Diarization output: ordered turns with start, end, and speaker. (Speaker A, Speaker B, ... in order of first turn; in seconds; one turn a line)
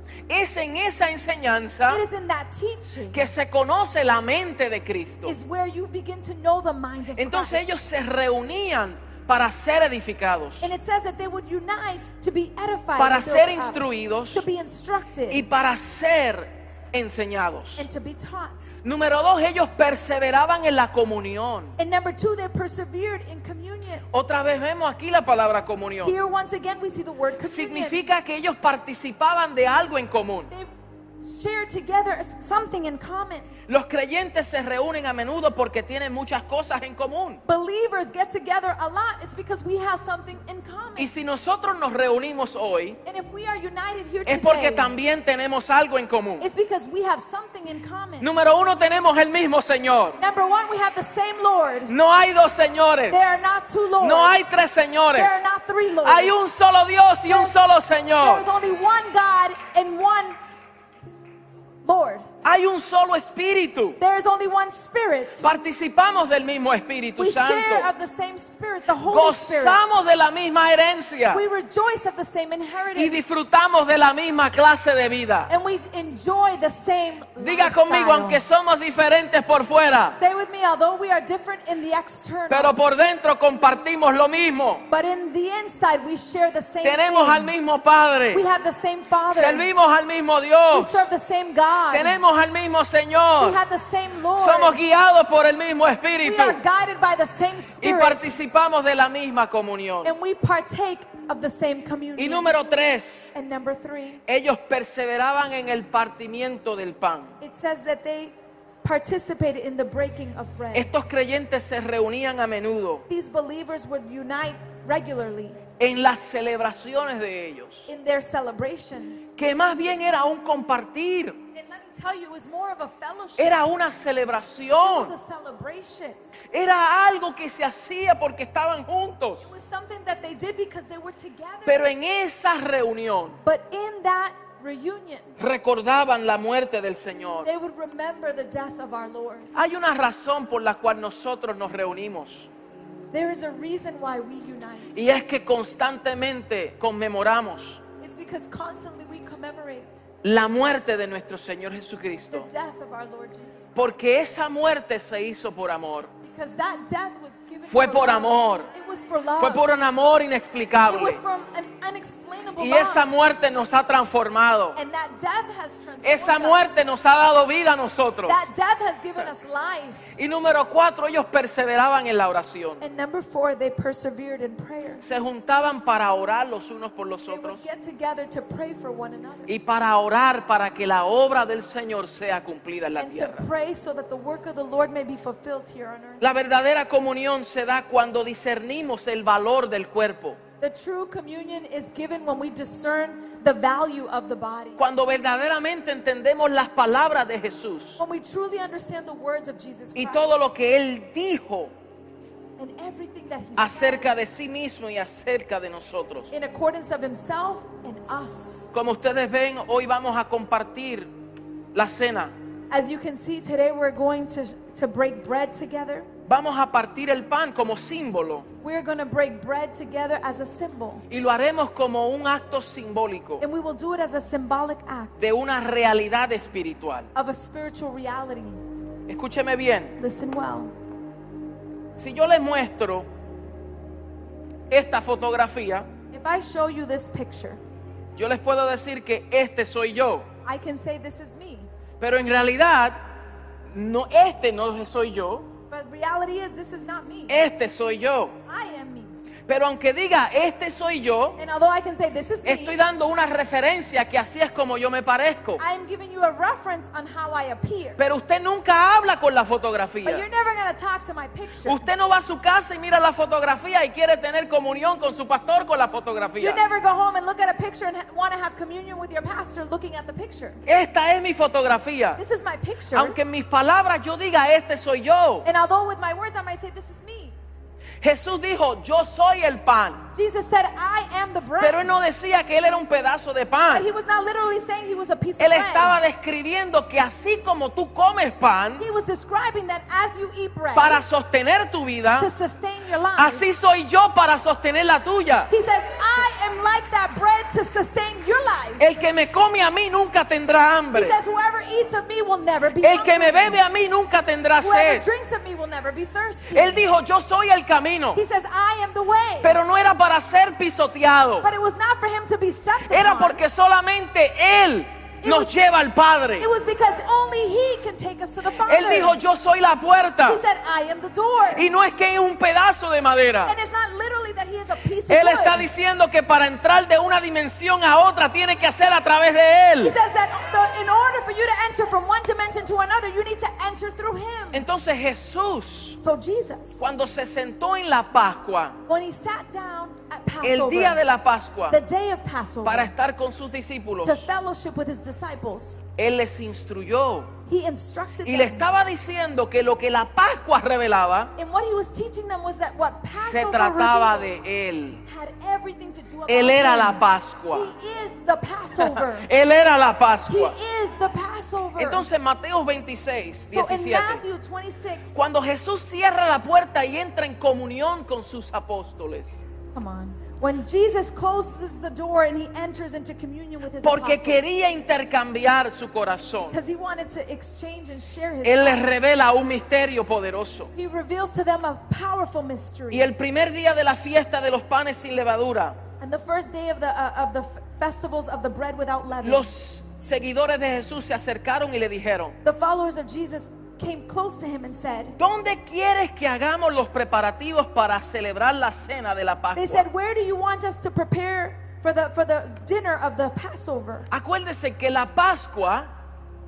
Speaker A: 0.3-2.0
Speaker B: 1.9-3.3
Speaker A: 3.1-5.4
Speaker B: 5.2-7.7
Speaker A: 7.2-10.7
Speaker B: 10.6-15.4
Speaker A: 13.0-14.4
Speaker A: 15.3-17.9
Speaker B: 17.8-18.7
Speaker A: 18.8-21.8
Speaker B: 21.8-24.1
Speaker A: 24.1-26.1
Speaker B: 26.0-28.0
Speaker A: 27.4-30.5
Speaker B: 31.2-33.5
Speaker A: 33.7-37.4
Speaker B: 37.5-41.1
Speaker A: 41.0-43.0
Speaker B: 43.0-45.0
Speaker A: 44.3-46.5
Speaker B: 46.4-48.3
Speaker A: 48.2-50.2
Speaker B: 50.2-51.9
Speaker A: 51.9-53.3
Speaker B: 53.1-54.6
Speaker A: 54.0-55.4
Speaker B: 55.1-56.4
Speaker A: 56.0-58.5
Speaker B: 57.3-57.6
Speaker B: 58.1-60.4
Speaker B: 61.8-62.3
Speaker A: 62.4-64.0
Speaker B: 64.0-65.5
Speaker A: 65.4-67.9
Speaker B: 67.2-69.8
Speaker A: 69.0-71.4
Speaker B: 71.3-73.5
Speaker A: 72.9-75.5
Speaker B: 75.5-78.4
Speaker A: 77.4-80.2
Speaker B: 80.2-82.8
Speaker A: 82.5-84.8
Speaker B: 84.9-87.5
Speaker A: 86.8-88.4
Speaker B: 88.3-89.7
Speaker A: 89.3-91.1
Speaker B: 90.7-92.2
Speaker A: 91.9-93.6
Speaker B: 93.4-94.8
Speaker A: 94.4-96.6
Speaker B: 96.2-98.4
Speaker A: 97.8-100.1
Speaker B: 100.0-102.6
Speaker A: 102.2-103.3
Speaker B: 103.3-104.2
Speaker A: 104.3-107.3
Speaker B: 107.4-110.9
Speaker A: 110.7-113.0
Speaker B: 113.1-115.6
Speaker A: 115.8-117.9
Speaker B: 117.9-119.3
Speaker A: 119.4-121.4
Speaker B: 121.5-123.8
Speaker A: 123.4-125.1
Speaker B: 124.8-126.2
Speaker A: 126.5-129.5
Speaker B: 129.4-131.8
Speaker A: 131.7-133.4
Speaker B: 133.4-135.3
Speaker A: 135.4-137.5
Speaker B: 137.4-139.5
Speaker A: 139.6-142.5
Speaker B: 143.1-144.9
Speaker A: 144.9-147.8
Speaker B: 148.0-150.1
Speaker A: 150.2-152.5
Speaker B: 152.3-154.1
Speaker A: 153.8-156.1
Speaker B: 156.2-159.7
Speaker A: 157.7-158.7
Speaker A: 159.4-161.2
Speaker B: 160.8-163.0
Speaker A: 162.6-164.8
Speaker B: 164.8-166.9
Speaker A: 166.0-168.4
Speaker B: 168.3-170.1
Speaker A: 170.2-172.8
Speaker B: 172.8-175.0
Speaker A: 175.0-177.7
Speaker B: 177.3-179.5
Speaker A: 179.5-183.4
Speaker B: 183.0-186.2
Speaker A: 186.2-190.4
Speaker B: 190.6-194.8
Speaker A: 194.8-198.0
Speaker B: 198.0-200.5
Speaker A: 199.9-201.7
Speaker B: 202.6-204.1
Speaker A: 203.6-206.3
Speaker B: 206.3-208.7
Speaker A: 208.7-211.1
Speaker A: 211.8-212.3
Speaker B: 212.7-216.1
Speaker A: 216.3-218.5
Speaker B: 218.6-221.1
Speaker A: 221.1-223.4
Speaker B: 223.4-225.3
Speaker A: 225.2-227.1
Speaker B: 227.1-228.6
Speaker A: 229.1-230.0
Speaker B: 230.0-230.7
Speaker A: 231.9-233.1
Speaker A: 234.7-235.9
Speaker B: 236.1-237.6
Speaker A: 238.2-240.3
Speaker B: 240.4-241.7
Speaker A: 242.0-243.0
Speaker A: 243.7-245.5
Speaker B: 245.7-247.4
Speaker A: 247.3-248.4
Speaker B: 248.5-249.2
Speaker A: 249.5-251.4
Speaker B: 251.4-252.8
Speaker A: 252.4-255.6
Speaker B: 255.6-258.0
Speaker A: 258.0-260.3
Speaker B: 260.0-261.9
Speaker A: 261.6-266.6
Speaker B: 266.4-270.6
Speaker A: 270.6-272.2
Speaker B: 272.2-273.2
Speaker A: 272.9-275.5
Speaker B: 275.4-277.4
Speaker A: 278.0-280.0
Speaker B: 280.1-281.8
Speaker A: 281.6-283.9
Speaker B: 283.7-286.0
Speaker A: 285.4-288.9
Speaker B: 288.8-291.0
Speaker A: 290.8-292.3
Speaker B: 292.1-293.5
Speaker A: 293.2-295.5
Speaker B: 295.5-298.8
Speaker A: 298.8-301.2
Speaker B: 300.9-303.6
Speaker A: 302.8-305.1
Speaker B: 304.6-306.8
Speaker A: 306.5-308.2
Speaker B: 308.1-309.5
Speaker A: 309.4-311.5
Speaker B: 311.4-313.4
Speaker A: 312.9-316.5
Speaker B: 315.2-315.6
Speaker B: 316.4-319.2
Speaker A: 318.6-320.4
Speaker B: 320.2-321.7
Speaker A: 321.5-323.6
Speaker B: 323.4-325.7
Speaker A: 325.1-330.0
Speaker B: 329.8-334.7
Speaker A: 334.5-336.0
Speaker B: 336.0-336.9
Speaker A: 336.8-338.8
Speaker B: 338.9-341.0
Speaker A: 340.4-341.8
Speaker B: 341.7-342.9
Speaker A: 342.6-344.3
Speaker B: 344.0-345.8
Speaker A: 346.0-347.3
Speaker B: 347.5-348.7
Speaker A: 348.2-351.3
Speaker B: 351.4-354.4
Speaker A: 353.2-355.0
Speaker B: 355.1-359.3
Speaker A: 356.3-357.7
Speaker A: 358.8-360.6
Speaker B: 360.3-362.1
Speaker A: 361.8-364.2
Speaker B: 363.5-365.2
Speaker A: 365.1-369.4
Speaker B: 369.7-374.5
Speaker A: 373.8-376.6
Speaker B: 376.5-379.0
Speaker A: 378.4-380.7
Speaker B: 380.7-383.1
Speaker A: 382.9-385.8
Speaker B: 386.0-389.5
Speaker A: 389.2-392.4
Speaker B: 392.4-395.2
Speaker A: 395.2-399.9
Speaker B: 399.6-404.1
Speaker A: 404.1-405.9